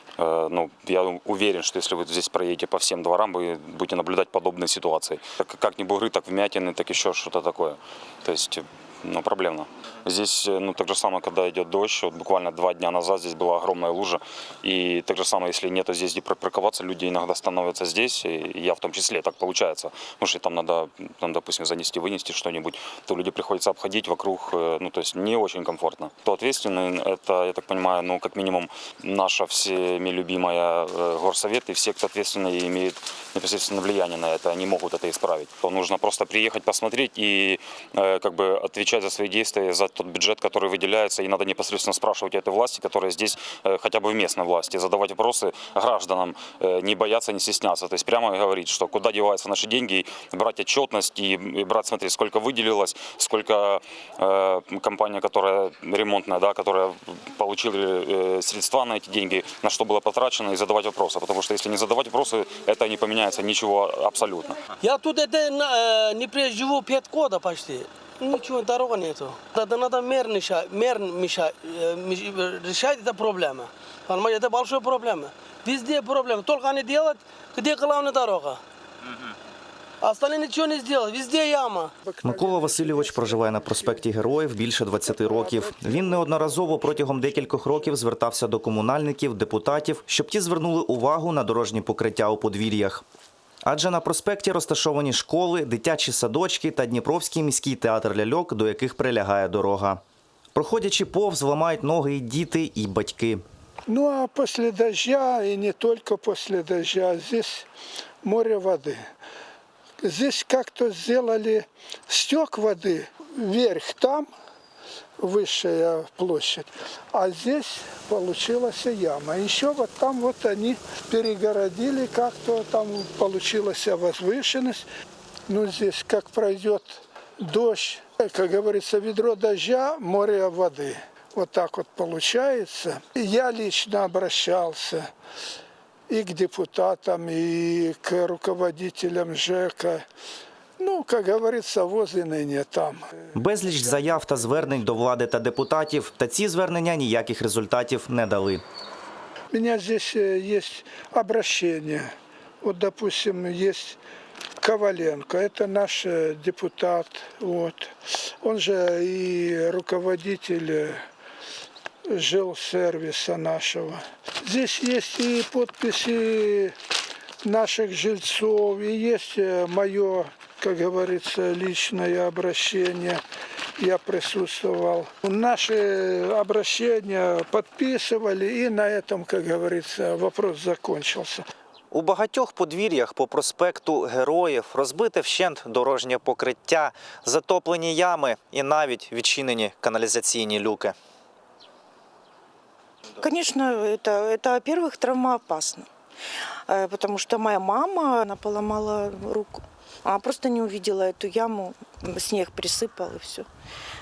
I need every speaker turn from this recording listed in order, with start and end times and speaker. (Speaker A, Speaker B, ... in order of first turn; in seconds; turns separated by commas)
Speaker A: 0.2-64.6, Speaker B: 64.8-78.6, Speaker B: 80.0-81.9, Speaker C: 82.0-84.1, Speaker D: 82.2-93.0, Speaker C: 85.0-87.9, Speaker D: 93.6-100.0, Speaker D: 100.5-103.5, Speaker C: 103.9-107.7, Speaker C: 108.2-109.0, Speaker C: 110.0-114.3, Speaker C: 115.2-124.9, Speaker C: 125.5-135.1, Speaker C: 136.1-140.1, Speaker C: 140.8-143.0, Speaker D: 143.3-148.6, Speaker C: 149.5-152.1, Speaker C: 152.6-154.0, Speaker C: 154.6-157.9, Speaker C: 158.4-161.0, Speaker C: 162.1-166.7, Speaker C: 167.4-173.2, Speaker C: 173.8-181.4, Speaker D: 181.9-190.9, Speaker E: 193.2-195.9, Speaker E: 196.7-203.5